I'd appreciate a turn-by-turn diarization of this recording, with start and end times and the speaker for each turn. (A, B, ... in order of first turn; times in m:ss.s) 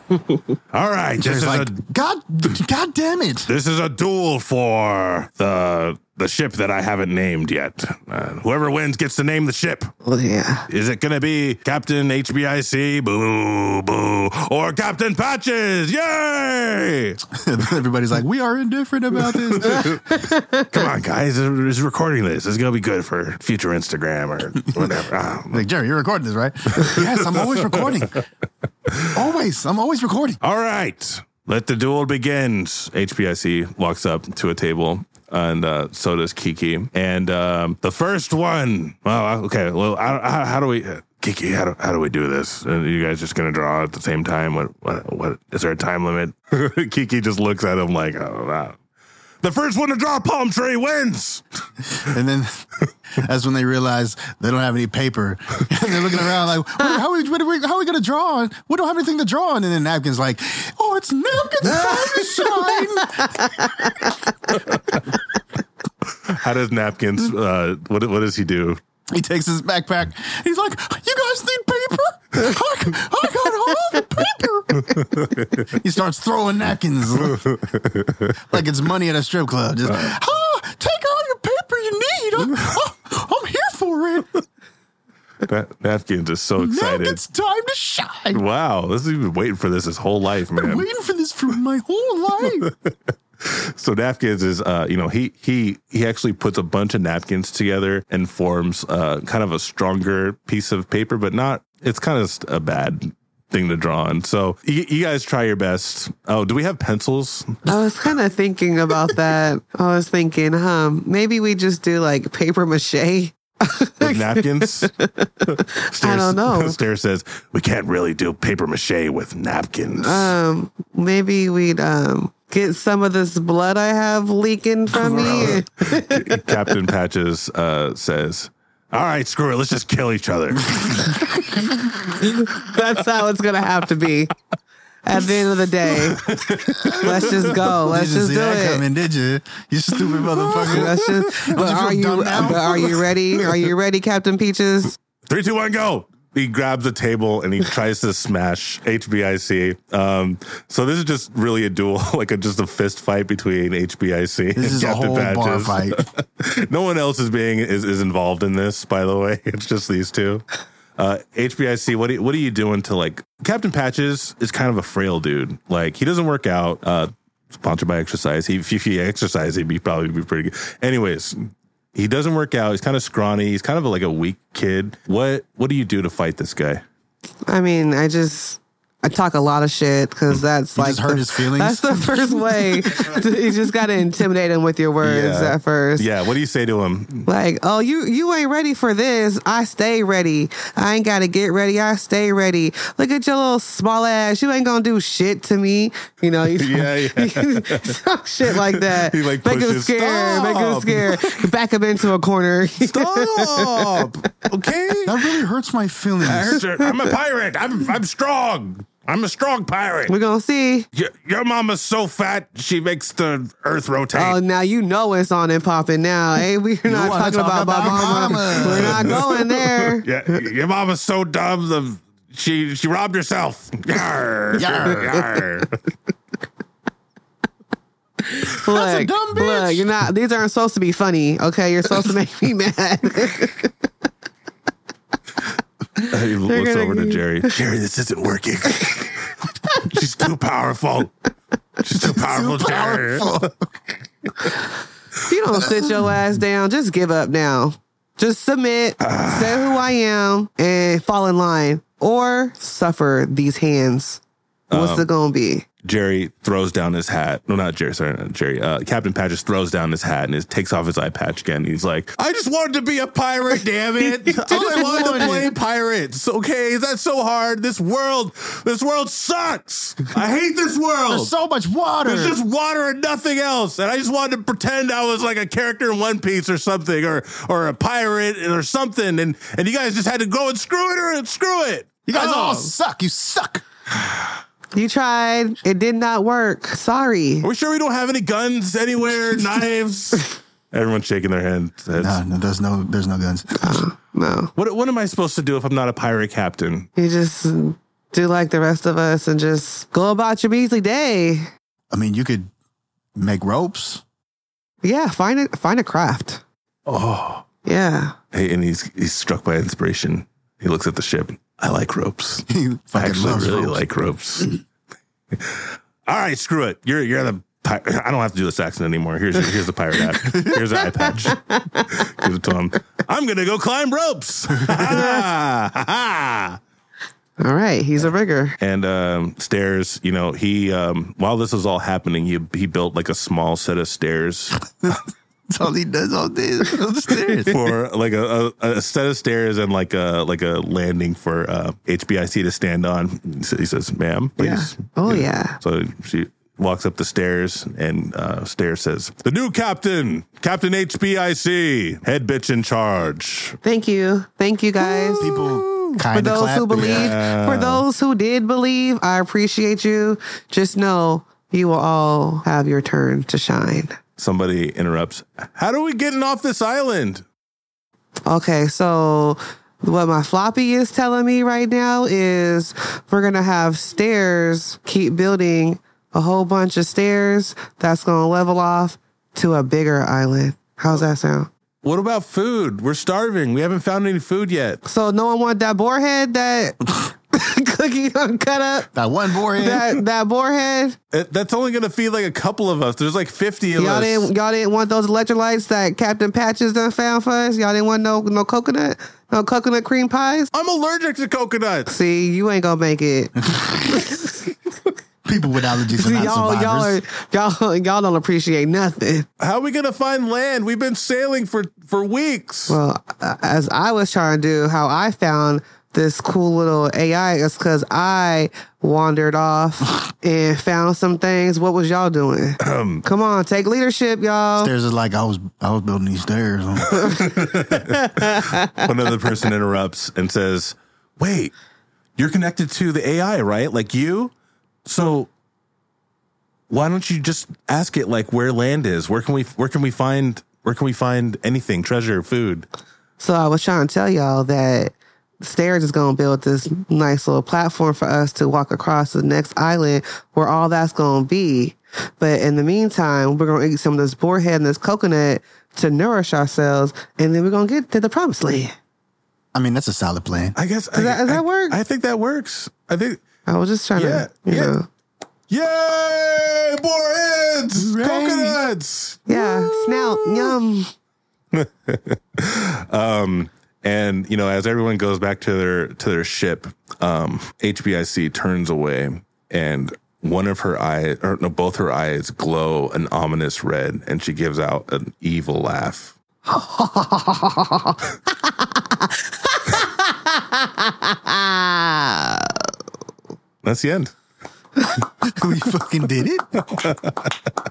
0:00.7-0:01.8 A
0:01.2-0:03.5 B
0:03.4-0:09.9 A
0:10.0-0:10.7 C
0:10.7-0:17.2 A
0:17.3-0:20.0 B
0:19.2-0:20.2 A
0:19.9-0:20.7 C
0:20.7-0:25.6 A
0:25.5-0:28.2 B
0:26.7-0:27.9 A
0:28.9-0:29.1 A
0:29.1-0:30.4 B
0:30.4-0:48.8 A
0:49.4-0:51.4 A
0:52.0-0:52.6 B
0:53.2-1:04.0 B
1:01.7-1:02.9 C
1:03.4-1:04.1 C
1:04.7-1:05.0 A
1:06.3-1:08.8 A
1:09.1-1:17.6 B
1:15.1-1:15.6 A
1:17.4-1:18.3 A
1:18.5-1:24.3 B
1:25.4-1:27.2 A
1:26.6-1:28.4 B
1:28.3-1:30.8 A
1:30.6-1:32.7 B
1:32.6-1:47.7 A
1:47.7-1:56.8 C
1:54.0-1:54.9 A
1:55.4-2:00.3 A
2:00.0-2:06.7 C
2:05.0-2:11.3 A
2:12.2-2:14.3 C
2:15.0-2:18.8 C
2:16.0-2:17.5 A
2:17.0-2:23.0 B
2:20.0-2:21.4 A
2:20.6-2:25.0 C
2:22.4-2:23.4 A
2:25.3-2:40.4 A
2:34.6-2:36.0 B
2:41.0-2:56.8 A
2:57.5-3:06.1 C
3:00.7-3:03.1 B
3:05.0-3:07.3 A
3:07.3-3:24.0 C
3:16.5-3:21.5 A
3:22.8-3:25.2 A
3:25.0-3:26.6 B
3:26.2-3:30.1 A
3:30.1-3:30.9 C
3:30.9-3:34.4 A
3:34.1-3:40.1 C
3:36.9-3:39.2 B
3:38.6-3:45.7 A
3:44.6-3:45.3 B
3:48.3-3:53.7 C
3:48.7-3:49.9 B
3:56.0-3:59.3 A
3:56.0-3:57.2 C
3:59.8-4:01.1 A
4:01.8-4:03.5 A
4:01.9-4:03.7 B
4:05.2-4:14.2 C
4:09.0-4:09.8 A
4:14.7-4:15.1 A
4:14.7-4:15.7 C
4:15.8-4:31.3 A
4:24.4-4:25.5 B
4:24.8-4:25.4 C
4:31.1-4:32.4 B
4:32.0-4:42.7 A
4:42.0-4:43.6 B
4:44.7-4:47.4 C
4:47.4-4:52.2 A
4:52.0-4:53.8 B
4:53.6-4:54.5 C
4:54.6-4:56.9 A
4:57.0-5:01.5 C
5:01.9-5:02.5 B
5:03.1-5:04.0 B
5:04.8-5:06.4 C
5:06.9-5:07.4 A
5:07.6-5:08.1 C
5:08.3-5:14.5 A
5:12.5-5:13.8 B
5:15.4-5:26.6 A
5:21.4-5:21.9 C
5:27.4-5:28.6 C
5:28.6-5:34.6 A
5:34.8-5:37.6 B
5:37.4-5:53.6 A
5:44.4-5:45.6 C
5:53.6-5:55.3 C
5:54.8-5:56.0 A
5:55.1-5:57.2 B
5:56.1-6:04.0 C
5:56.7-5:57.8 A
6:04.2-6:07.2 A
6:08.3-6:21.5 C
6:21.8-6:24.8 A
6:24.9-6:28.9 C
6:28.9-6:29.9 B
6:29.6-6:31.0 C
6:31.1-6:34.3 A
6:33.8-6:40.5 C
6:40.5-6:41.9 A
6:41.9-6:44.5 C
6:43.4-6:44.0 B
6:45.2-6:47.0 B
6:46.0-6:49.3 C
6:49.4-6:52.8 A
6:52.7-7:04.7 C
7:02.6-7:03.0 A
7:04.6-7:07.2 B
7:06.9-7:11.5 A
7:08.2-7:08.7 C
7:12.2-7:14.3 A
7:14.9-7:15.3 A
7:16.7-7:22.7 A
7:23.2-7:38.7 C
7:39.5-7:40.6 B
7:40.6-7:43.2 A
7:40.9-7:41.8 C
7:43.4-7:44.9 C
7:44.0-7:44.7 A
7:45.5-7:50.5 A
7:47.8-7:48.6 B
7:49.3-7:50.9 C
7:51.5-8:06.1 A
8:06.5-8:12.6 C
8:13.6-8:14.1 A
8:15.2-8:16.5 B
8:16.6-8:17.4 A